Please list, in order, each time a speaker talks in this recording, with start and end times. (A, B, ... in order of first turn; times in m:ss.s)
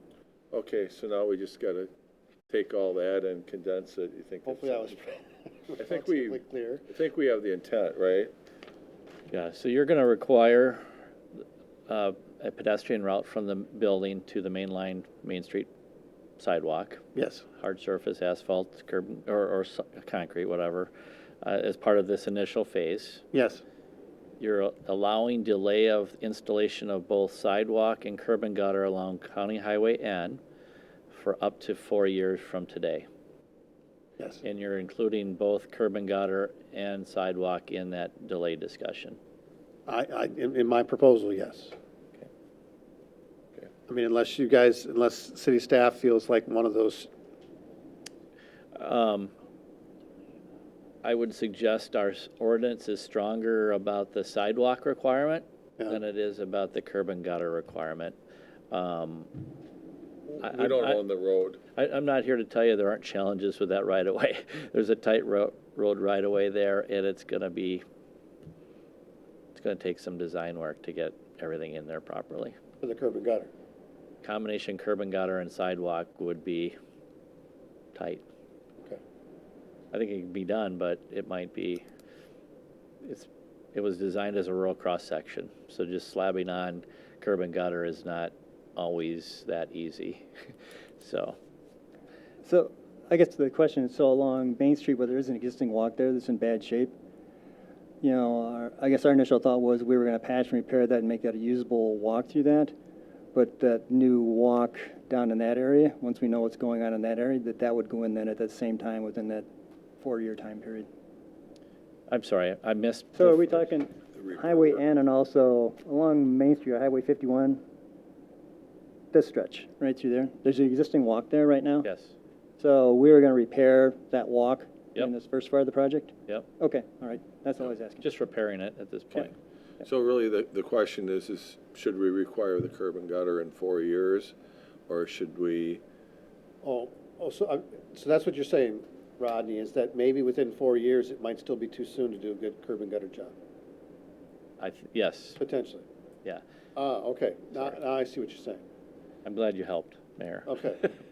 0:00.5-0:01.9 A
0:02.5-0:05.2 A
0:04.4-0:06.9 B
0:05.8-0:08.3 A
0:09.3-0:10.8 C
0:11.9-0:15.7 C
0:16.4-0:17.0 C
0:17.2-0:17.4 B
0:17.6-0:20.9 C
0:21.4-0:23.2 C
0:23.3-0:23.6 B
0:24.4-0:30.4 C
0:31.1-0:33.1 C
0:34.4-0:39.2 C
0:39.9-0:41.7 B
0:43.9-0:47.1 B
0:48.8-0:49.3 C
0:51.0-0:58.2 C
0:58.7-0:59.3 C
1:00.4-1:01.6 A
1:00.4-1:01.0 C
1:01.8-1:07.8 C
1:09.6-1:12.6 C
1:12.8-1:13.5 B
1:14.2-1:16.8 C
1:18.0-1:18.2 C
1:19.9-1:21.8 C
1:23.0-1:30.3 C
1:31.0-1:31.4 C
1:32.5-1:36.9 D
1:38.0-1:42.7 D
1:43.3-1:49.5 D
1:50.0-1:50.9 D
1:52.1-1:53.7 C
1:53.2-1:57.6 D
1:54.2-1:54.8 A
1:59.1-2:01.9 D
2:01.8-2:02.1 C
2:02.6-2:08.1 D
2:08.0-2:09.4 C
2:09.8-2:14.3 A
2:14.9-2:15.8 A
2:16.6-2:23.3 B
2:24.6-2:25.4 C
2:25.4-2:25.9 B
2:26.8-2:28.6 B
2:29.2-2:30.9 C
2:30.5-2:30.8 B